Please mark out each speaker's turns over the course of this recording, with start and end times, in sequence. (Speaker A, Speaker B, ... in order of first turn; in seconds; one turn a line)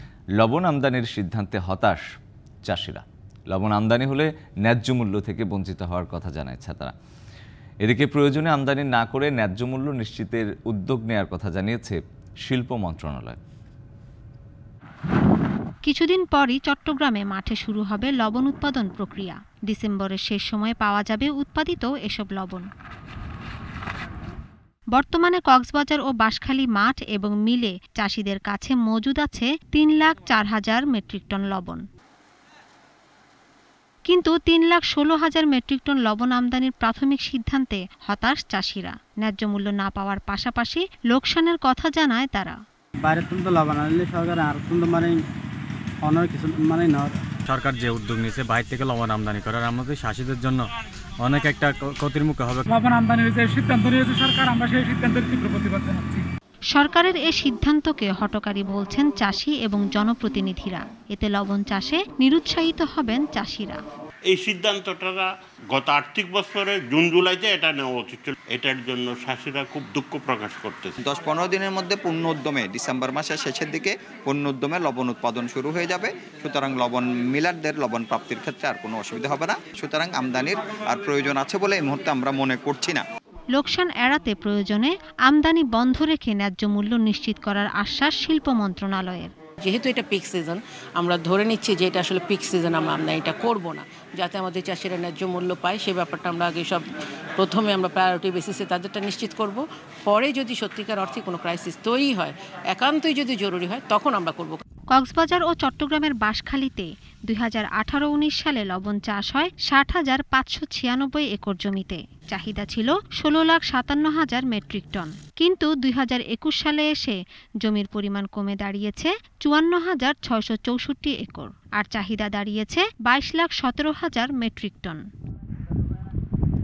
Speaker A: 0.4-2.0
Speaker A: 2.7-6.9
Speaker A: 7.8-13.4
Speaker B: 15.8-22.7
Speaker B: 24.9-31.8
Speaker B: 34.1-42.5
Speaker C: 43.0-45.2
Speaker C: 46.0-47.2
Speaker D: 47.5-50.7
Speaker D: 51.2-52.6
Speaker E: 52.7-56.2
Speaker B: 56.7-63.8
Speaker F: 64.3-71.0
Speaker G: 71.0-83.0
Speaker B: 83.6-89.3
Speaker H: 89.6-96.8
Speaker H: 97.4-104.6
Speaker B: 104.9-125.0